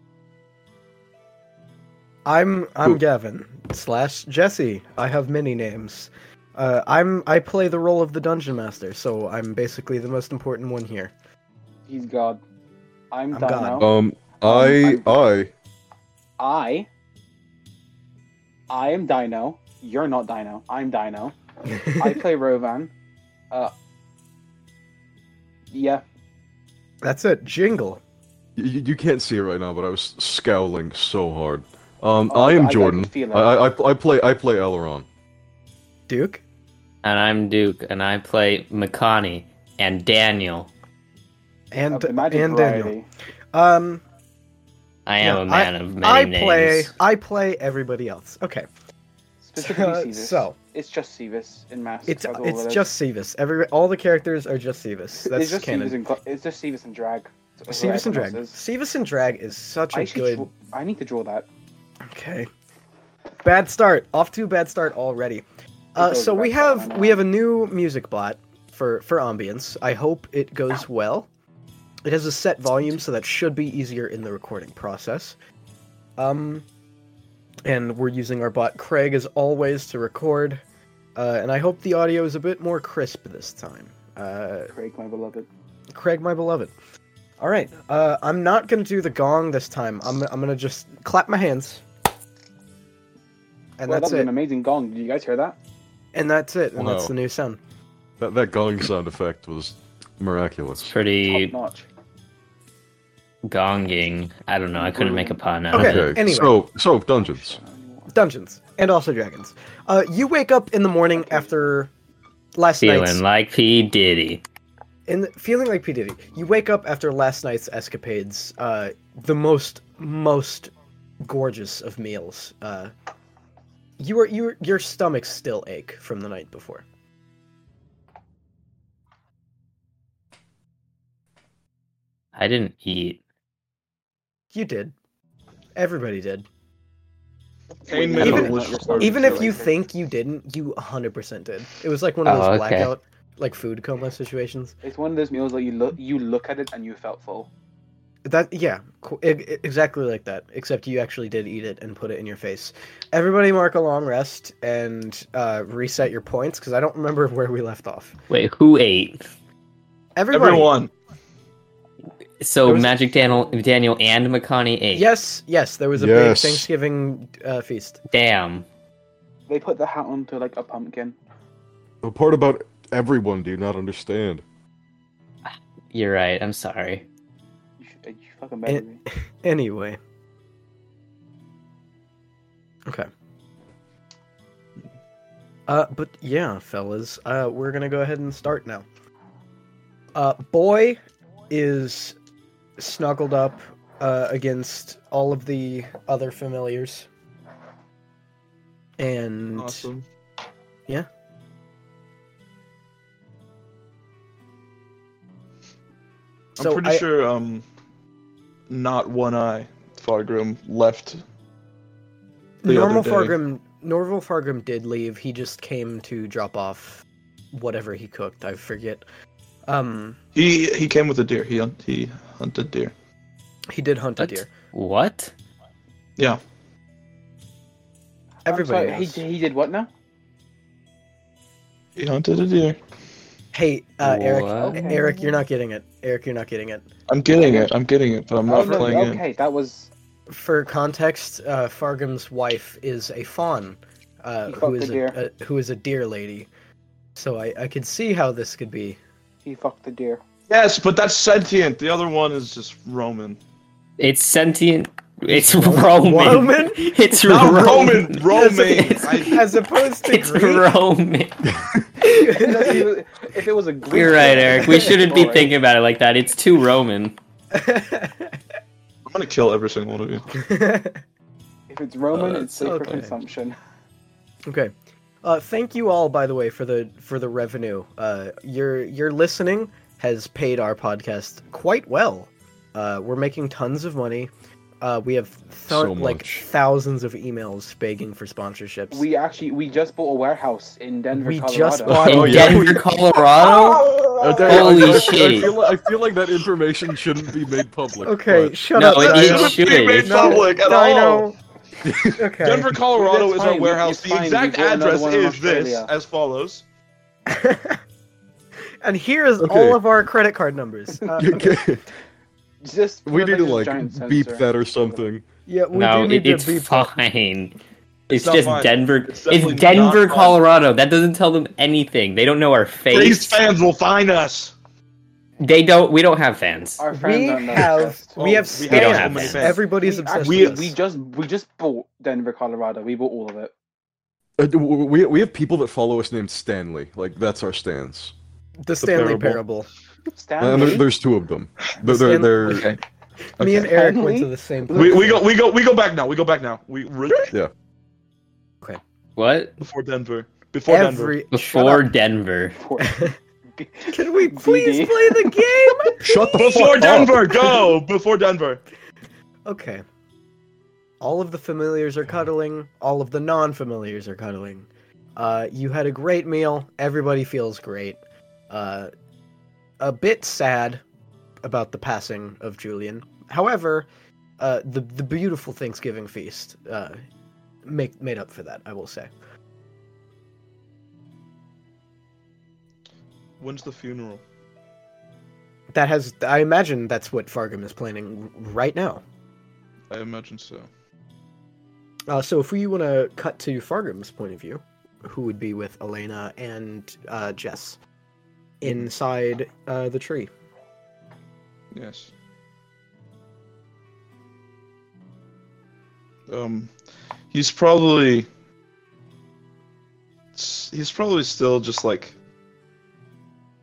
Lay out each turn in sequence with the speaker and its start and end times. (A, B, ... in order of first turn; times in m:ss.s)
0:02.3-0:11.1 A
0:11.9-0:12.4 B
0:13.1-0:13.9 B
0:13.3-0:13.8 A
0:13.8-0:15.5 C
0:14.4-0:15.2 B
0:16.4-0:16.9 B
0:18.7-0:21.4 B
0:21.7-0:22.2 A
0:22.0-0:22.9 B
0:25.7-0:26.0 B
0:27.0-0:28.0 A
0:28.6-0:35.1 C
0:32.3-0:33.5 B
0:36.1-0:36.4 A
0:37.0-0:40.7 D
0:41.7-0:43.0 A
0:41.9-0:43.1 B
0:43.5-0:44.0 A
0:45.1-0:46.9 D
0:45.2-0:48.7 A
0:49.4-0:52.9 B
0:49.6-0:50.6 A
0:52.1-0:56.0 A
0:55.2-0:58.6 B
0:57.7-1:00.5 A
0:59.9-1:01.5 B
1:02.1-1:02.5 A
1:03.4-1:05.4 A
1:06.0-1:07.2 B
1:06.0-1:11.3 A
1:12.0-1:15.4 A
1:16.2-1:16.7 A
1:17.7-1:20.6 A
1:21.2-1:24.7 A
1:24.7-1:25.5 B
1:25.9-1:26.7 A
1:27.4-1:31.8 A
1:33.8-1:34.3 A
1:33.9-1:35.6 B
1:36.1-1:37.6 A
1:36.8-1:37.1 C
1:38.2-1:40.9 C
1:40.9-1:41.6 D
1:41.3-1:41.9 B
1:43.4-1:46.1 D
1:44.7-1:45.4 B
1:45.7-1:46.5 A
1:45.7-1:47.6 C
1:47.3-1:48.1 B
1:48.1-1:51.9 A
1:51.1-1:51.7 B
1:52.6-1:53.2 A
1:52.8-1:54.4 D
1:55.1-2:00.7 A
2:01.2-2:02.9 A
2:04.0-2:06.8 A
2:12.4-2:13.2 D
2:14.5-2:14.9 A
2:15.8-2:16.5 A
2:17.8-2:19.5 E
2:17.9-2:19.8 B
2:18.2-2:24.8 A
2:22.3-2:22.9 D
2:24.8-2:27.5 B
2:28.2-2:38.1 A
2:38.3-2:39.2 D
2:40.2-2:40.7 A
2:40.3-2:40.9 E
2:42.4-2:45.0 D
2:44.9-2:48.0 A
2:46.0-2:46.7 C
2:48.1-2:48.6 D
2:49.5-2:51.2 B
2:52.0-2:54.4 C
2:55.5-2:57.1 D
2:57.8-2:59.0 B
2:59.4-3:00.0 A
3:05.7-3:08.9 A
3:10.2-3:12.2 A
3:12.8-3:17.1 A
3:19.0-3:19.9 A
3:19.6-3:20.0 E
3:26.6-3:27.0 A
3:26.6-3:27.7 E
3:28.7-3:31.2 E
3:32.6-3:39.0 A
3:32.6-3:33.4 E
3:39.7-3:40.2 A
3:40.4-3:42.9 E
3:43.7-3:44.5 A
3:44.2-3:45.3 D
3:48.5-3:49.2 A
3:48.5-3:49.9 B
3:52.0-3:52.8 E
3:53.5-3:56.8 A
3:54.0-3:54.8 D
3:54.6-3:55.3 B
3:57.1-3:59.2 E
3:57.3-3:57.7 B
3:58.5-3:59.9 B
3:58.6-3:59.0 A
4:00.3-4:06.5 A
4:04.5-4:05.2 B
4:07.2-4:09.0 A
4:09.4-4:10.2 B
4:10.5-4:13.4 E
4:14.0-4:19.5 D
4:15.3-4:15.8 C
4:15.9-4:17.0 A
4:17.2-4:19.4 E
4:19.3-4:20.8 A
4:20.0-4:21.4 D
4:22.0-4:22.8 A
4:22.2-4:25.6 B
4:23.9-4:27.2 D
4:27.5-4:28.4 A
4:29.1-4:30.3 E
4:30.3-4:31.0 A
4:31.7-4:33.6 B
4:32.1-4:32.8 D
4:32.6-4:33.0 A
4:34.5-4:34.7 A
4:35.2-4:44.3 A
4:44.8-4:49.1 A
4:45.7-4:46.5 C
4:48.9-4:52.3 B
4:51.1-4:52.8 A
4:51.9-4:52.9 C
4:52.0-4:53.9 D
4:53.6-4:54.9 E
4:54.2-4:59.2 C
4:54.4-4:55.5 D
4:58.0-5:01.4 A
4:58.8-5:00.5 D
4:58.9-5:01.3 E
5:01.8-5:02.2 C
5:02.2-5:02.7 A
5:02.4-5:06.6 E
5:02.9-5:05.9 B
5:07.3-5:07.8 A
5:08.8-5:11.5 A
5:09.4-5:09.8 C
5:11.0-5:11.6 B
5:11.2-5:11.8 C
5:12.6-5:15.0 B
5:13.1-5:15.2 C
5:15.5-5:16.9 A
5:15.7-5:17.6 D
5:18.1-5:20.4 E
5:18.1-5:23.5 D
5:22.9-5:24.5 E
5:25.4-5:26.8 D
5:26.8-5:28.2 B
5:26.9-5:30.8 A
5:28.2-5:30.6 E
5:28.7-5:29.5 D
5:29.8-5:33.5 B
5:34.4-5:38.1 C
5:38.6-5:39.7 A
5:38.8-5:39.4 E
5:40.1-5:40.9 B
5:40.4-5:42.7 C
5:41.8-5:42.7 A
5:42.5-5:42.8 E
5:43.4-5:45.2 A
5:43.4-5:43.8 E
5:43.6-5:45.0 B
5:44.7-5:47.3 E
5:49.2-5:49.6 D
5:49.6-5:51.2 E
5:50.7-5:51.9 A
5:51.3-5:52.6 D
5:52.6-5:55.5 B
5:52.8-5:53.2 A
5:53.9-5:56.6 A
5:56.1-5:57.1 C
5:56.3-5:58.6 E
5:59.5-5:59.8 A
6:01.0-6:08.0 A
6:08.5-6:08.9 A
6:09.8-6:10.8 A
6:11.4-6:13.9 A
6:14.4-6:17.0 A
6:17.7-6:19.1 A
6:23.4-6:24.2 E
6:25.7-6:29.0 A
6:29.9-6:30.7 E
6:32.1-6:37.8 A
6:38.6-6:40.3 A
6:41.7-6:42.1 E
6:46.3-6:46.7 E
6:47.3-6:48.3 E
6:50.4-6:52.2 E